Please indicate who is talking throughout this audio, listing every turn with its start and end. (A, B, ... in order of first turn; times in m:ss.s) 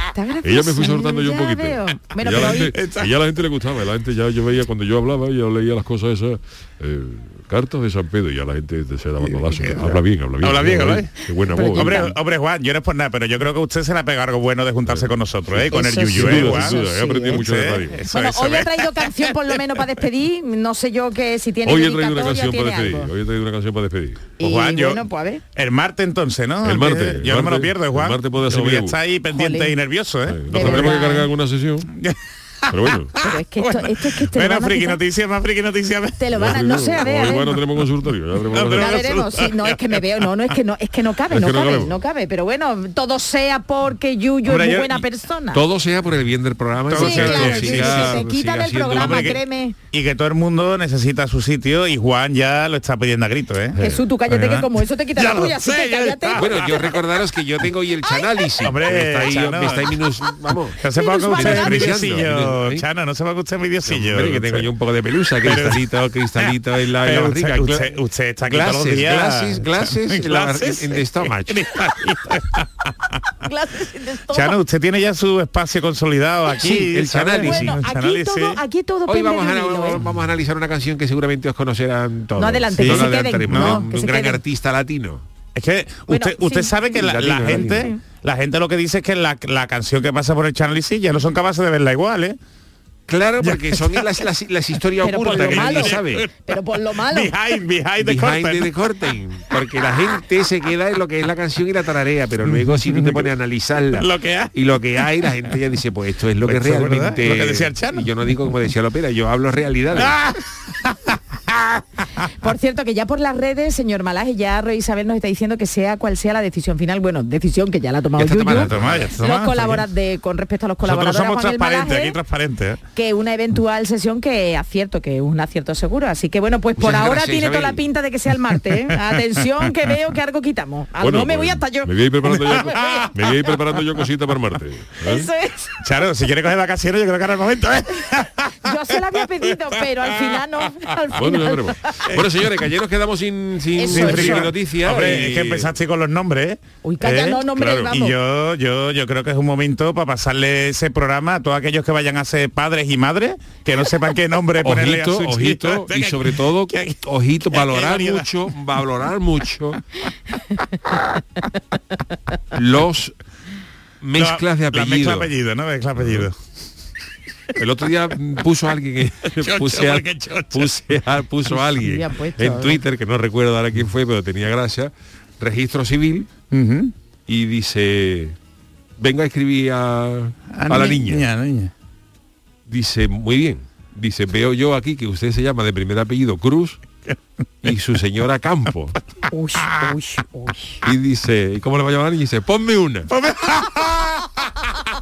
0:00.1-0:02.7 A
0:00.4-0:12.1 B
0:02.2-0:03.1 C
0:09.2-0:19.6 C
0:11.5-0:12.1 A
0:14.8-0:18.0 B
0:15.7-0:17.4 A
0:18.1-0:23.1 A
0:21.6-0:24.3 B
0:24.4-0:25.0 C
0:24.4-0:25.4 A
0:25.6-0:31.1 C
0:26.6-0:29.0 B
0:29.3-0:29.7 A
0:30.2-0:31.9 B
0:30.5-0:31.3 A
0:32.6-0:37.4 C
0:32.7-0:33.1 B
0:33.2-0:35.0 A
0:36.2-0:37.6 A
0:36.3-0:39.1 B
0:38.5-0:40.0 C
0:38.7-0:45.6 A
0:41.3-0:42.0 B
0:44.4-0:45.0 C
0:45.5-0:49.4 D
0:46.9-0:48.2 C
0:47.0-0:49.8 A
0:48.9-0:57.0 C
0:53.8-0:56.9 A
0:56.4-1:00.8 D
0:58.6-1:00.0 C
1:00.7-1:04.7 C
1:00.9-1:02.1 A
1:01.3-1:02.8 D
1:03.8-1:11.8 D
1:05.4-1:05.8 C
1:06.4-1:12.9 C
1:13.4-1:14.6 A
1:14.3-1:18.6 C
1:16.5-1:17.8 D
1:17.4-1:20.0 A
1:19.1-1:25.2 D
1:22.4-1:24.4 A
1:22.8-1:23.9 C
1:25.5-1:32.4 C
1:26.1-1:26.8 A
1:26.9-1:27.9 D
1:27.5-1:28.0 A
1:33.1-1:36.3 D
1:33.4-1:34.2 C
1:35.0-1:37.3 A
1:35.1-1:36.3 C
1:37.0-1:38.9 C
1:38.0-1:50.2 D
1:42.5-1:43.3 C
1:43.9-1:45.3 C
1:46.4-1:48.1 C
1:50.0-1:51.8 C
1:52.4-2:02.2 A
1:58.2-1:59.2 D
1:58.5-1:59.8 C
2:00.8-2:02.8 C
2:02.9-2:11.9 A
2:06.8-2:07.8 D
2:11.0-2:15.3 B
2:12.2-2:13.8 C
2:12.5-2:13.3 A
2:15.0-2:15.7 A
2:15.8-2:19.0 C
2:18.6-2:22.1 A
2:20.0-2:20.4 C
2:21.2-2:21.9 B
2:22.0-2:22.5 C
2:22.1-2:25.7 D
2:23.7-2:24.5 A
2:23.9-2:36.9 C
2:26.8-2:28.1 A
2:34.6-2:39.8 D
2:37.5-2:38.3 C
2:42.5-2:43.1 D
2:44.0-2:45.3 D
2:44.2-2:46.3 C
2:47.5-2:56.3 D
2:49.4-2:50.9 C
2:51.7-2:52.8 A
2:56.5-2:56.9 C
2:57.3-2:58.4 D
2:59.0-3:01.2 D
3:00.6-3:01.7 C
3:02.7-3:06.8 D
3:07.6-3:09.0 D
3:09.3-3:10.8 A
3:10.8-3:13.1 D
3:13.1-3:14.5 C